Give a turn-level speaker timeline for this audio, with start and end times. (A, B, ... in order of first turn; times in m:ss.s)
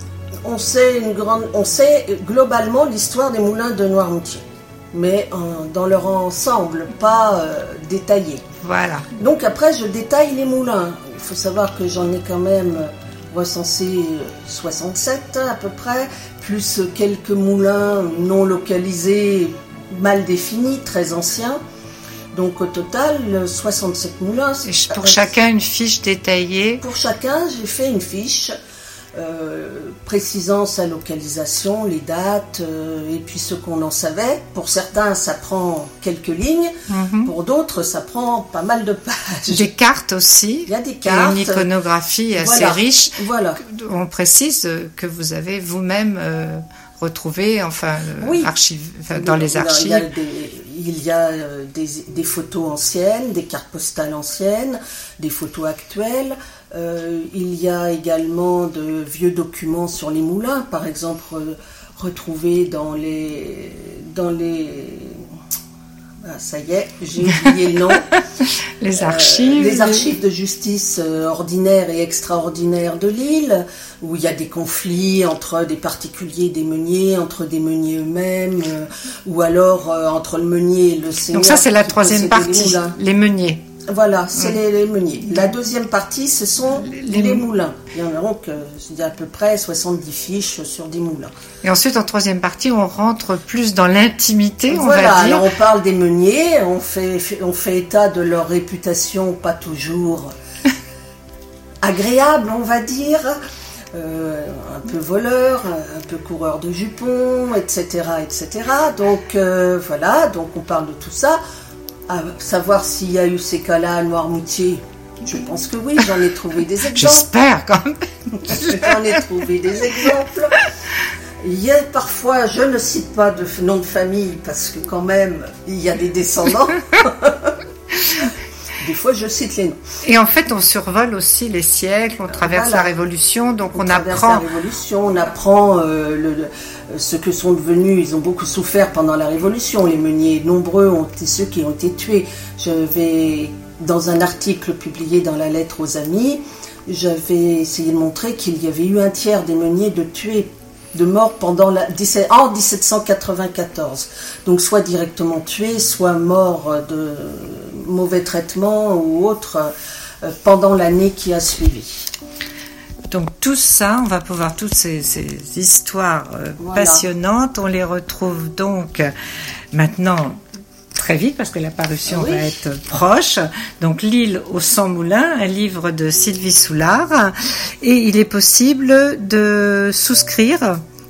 0:00.4-0:04.4 A
0:04.9-0:08.4 A
0:08.6-0:09.1 B
0:09.2-0:21.6 A
0:22.3-0:25.2 A
0:24.7-0:26.8 B
0:26.8-0:28.5 A
0:29.2-0:36.7 A
0:36.9-0:37.3 B
0:37.2-0:39.7 A
0:39.5-0:50.1 B
0:40.7-0:41.7 A
0:42.4-0:43.6 A
0:48.2-0:48.5 A
0:49.1-1:05.2 A
1:06.2-1:08.1 A
1:08.8-1:10.1 B
1:09.0-1:23.0 A
1:21.3-1:23.6 B
1:23.9-1:31.3 A
1:26.7-1:27.5 B
1:31.6-1:35.5 B
1:34.7-1:40.3 A
1:41.8-1:43.4 A
1:43.9-1:51.4 A
1:52.1-1:57.3 A
1:56.9-1:58.9 B
1:58.5-2:00.6 A
2:01.4-2:07.5 A
2:08.8-2:09.8 A
2:10.0-2:14.4 B
2:12.3-2:12.9 A
2:13.7-2:39.7 A
2:40.2-2:42.1 A
2:43.1-2:49.1 B
2:46.6-2:47.0 A
2:49.7-2:50.4 B
2:51.0-3:00.8 B
2:52.0-2:52.6 A